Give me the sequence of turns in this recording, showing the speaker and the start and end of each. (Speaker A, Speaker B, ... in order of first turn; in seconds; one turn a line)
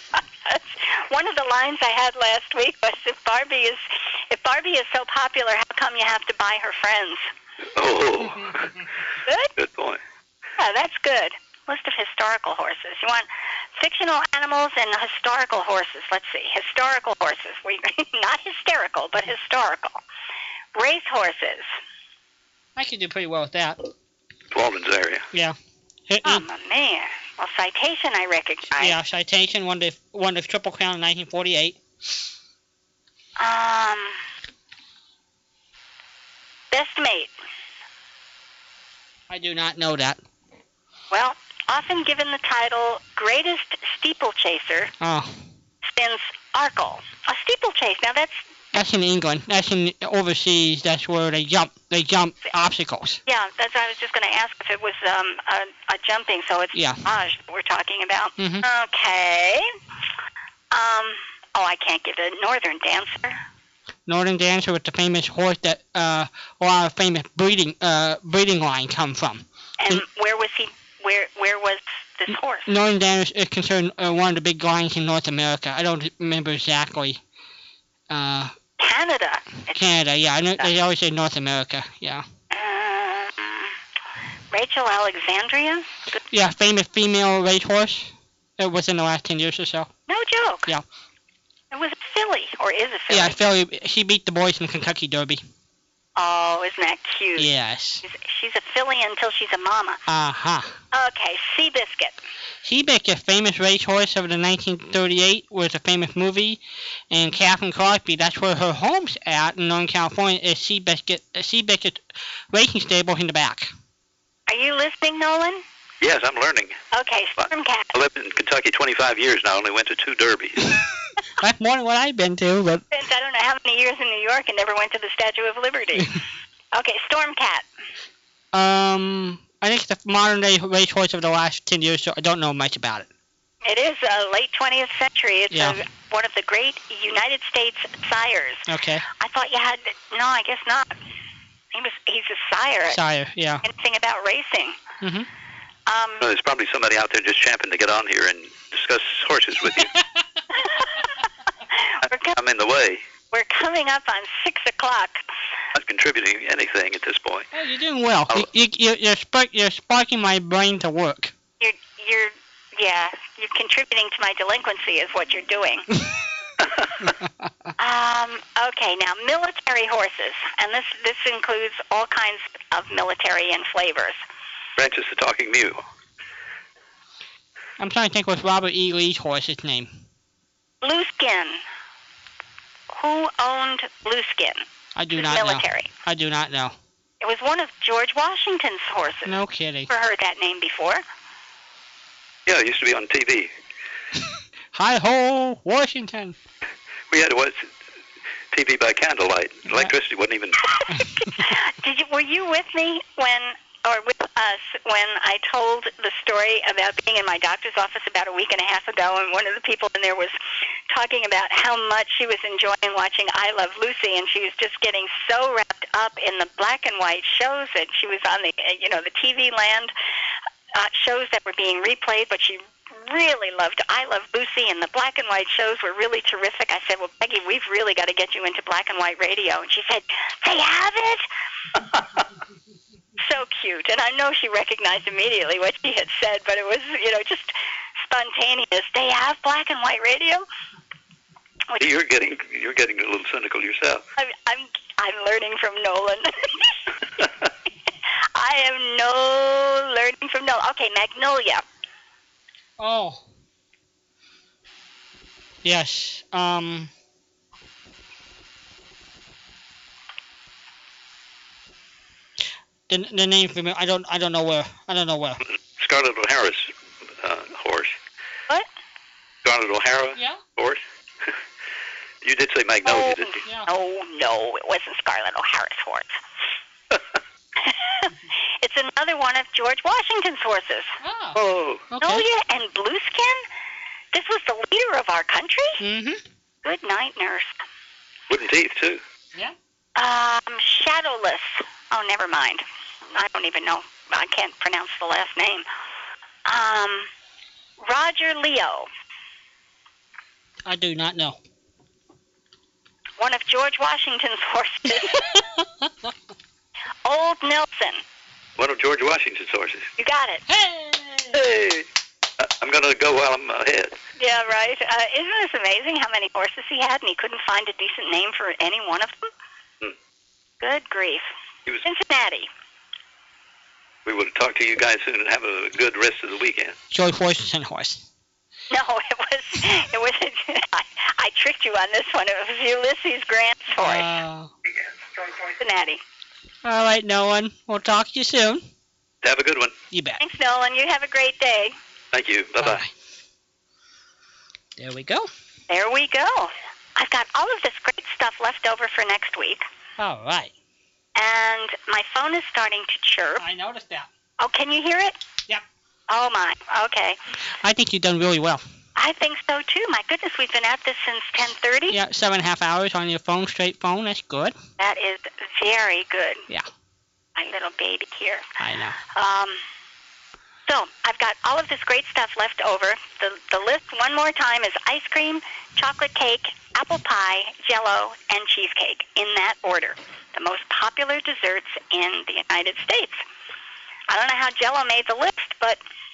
Speaker A: 0.2-7.3
Speaker B: 7.8-8.8
Speaker A: 9.3-9.5
Speaker B: 9.6-10.0
Speaker A: 10.6-20.0
Speaker A: 20.8-21.7
Speaker C: 22.8-23.8
Speaker B: 24.5-25.3
Speaker C: 26.1-26.5
Speaker A: 26.2-29.0
Speaker C: 28.8-31.8
Speaker A: 33.4-34.2
Speaker A: 36.7-37.3
Speaker C: 39.3-40.2
Speaker A: 41.1-44.9
Speaker C: 45.0-45.4
Speaker A: 45.8-48.4
Speaker C: 48.7-53.2
Speaker A: 53.3-59.7
Speaker C: 56.7-57.0
Speaker C: 58.4-58.7
Speaker A: 60.7-63.4
Speaker C: 64.1-70.0
Speaker A: 69.8-72.7
Speaker C: 72.3-77.2
Speaker C: 78.1-78.5
Speaker A: 78.8-79.8
Speaker C: 79.7-82.2
Speaker A: 82.5-83.7
Speaker A: 84.5-86.2
Speaker C: 86.3-89.9
Speaker A: 90.1-90.7
Speaker A: 91.7-93.4
Speaker C: 93.1-95.5
Speaker A: 96.2-97.5
Speaker C: 97.4-98.0
Speaker A: 98.0-100.0
Speaker C: 100.1-100.8
Speaker A: 100.9-102.2
Speaker C: 102.6-113.7
Speaker A: 114.5-115.6
Speaker B: 116.0-116.8
Speaker A: 116.9-117.9
Speaker B: 117.4-120.8
Speaker C: 121.4-122.8
Speaker A: 122.9-126.2
Speaker A: 126.7-127.7
Speaker C: 128.5-133.1
Speaker A: 133.6-138.7
Speaker C: 135.5-135.8
Speaker C: 138.7-139.1
Speaker A: 139.2-140.9
Speaker A: 141.7-143.0
Speaker C: 142.9-143.7
Speaker A: 143.6-144.8
Speaker C: 145.0-145.3
Speaker A: 145.9-146.2
Speaker B: 146.2-149.9
Speaker A: 150.6-150.9
Speaker A: 151.8-152.4
Speaker B: 152.3-153.0
Speaker A: 153.3-155.2
Speaker B: 155.7-157.5
Speaker C: 157.5-161.3
Speaker A: 161.6-165.9
Speaker B: 166.6-167.1
Speaker A: 167.8-174.2
Speaker B: 174.8-175.8
Speaker C: 177.8-180.0
Speaker A: 180.8-181.6
Speaker A: 182.9-184.6
Speaker C: 184.9-186.8
Speaker A: 185.1-185.9
Speaker A: 187.2-191.0
Speaker C: 189.2-189.9
Speaker B: 192.5-193.5
Speaker C: 194.7-196.4
Speaker B: 197.1-197.7
Speaker B: 198.5-200.6
Speaker A: 201.2-210.3
Speaker A: 210.9-219.9
Speaker A: 220.8-231.2
Speaker A: 233.2-240.4
Speaker B: 241.8-244.1
Speaker A: 244.2-246.7
Speaker A: 248.3-251.6
Speaker C: 252.8-253.2
Speaker C: 255.6-256.9
Speaker C: 262.9-265.4
Speaker B: 265.5-267.9
Speaker B: 269.4-271.3
Speaker C: 270.2-270.4
Speaker B: 272.2-273.4
Speaker A: 272.9-276.2
Speaker A: 277.6-281.0
Speaker C: 281.0-282.3
Speaker B: 281.4-281.9
Speaker A: 282.0-283.4
Speaker A: 284.1-285.8
Speaker C: 285.8-286.2
Speaker A: 286.6-287.5
Speaker B: 288.3-289.0
Speaker A: 290.0-295.7
Speaker A: 296.5-297.1
Speaker A: 297.8-298.9
Speaker C: 300.6-301.4
Speaker A: 303.2-305.4
Speaker C: 305.0-305.9
Speaker A: 307.1-308.0
Speaker B: 308.6-309.9
Speaker A: 310.0-310.4
Speaker C: 310.5-311.4
Speaker B: 311.3-311.9
Speaker B: 312.4-314.0
Speaker A: 314.2-319.3
Speaker A: 320.6-321.3
Speaker A: 321.8-322.5
Speaker B: 324.1-326.8
Speaker C: 326.9-328.1
Speaker A: 328.7-334.1
Speaker C: 333.8-334.5
Speaker A: 335.5-336.0
Speaker C: 336.6-338.7
Speaker B: 339.2-339.8
Speaker C: 339.9-340.2
Speaker A: 340.2-341.8
Speaker B: 342.1-342.8
Speaker C: 342.6-342.9
Speaker C: 344.8-345.3
Speaker A: 345.7-349.6
Speaker C: 350.0-350.5
Speaker A: 351.2-353.4
Speaker C: 353.4-354.1
Speaker A: 354.4-355.2
Speaker A: 356.1-357.2
Speaker C: 357.6-358.6
Speaker A: 359.0-362.0
Speaker C: 361.9-364.6
Speaker A: 364.8-366.5
Speaker A: 367.4-368.4
Speaker C: 368.6-369.0
Speaker A: 369.1-369.6
Speaker A: 370.7-383.2
Speaker A: 384.1-385.8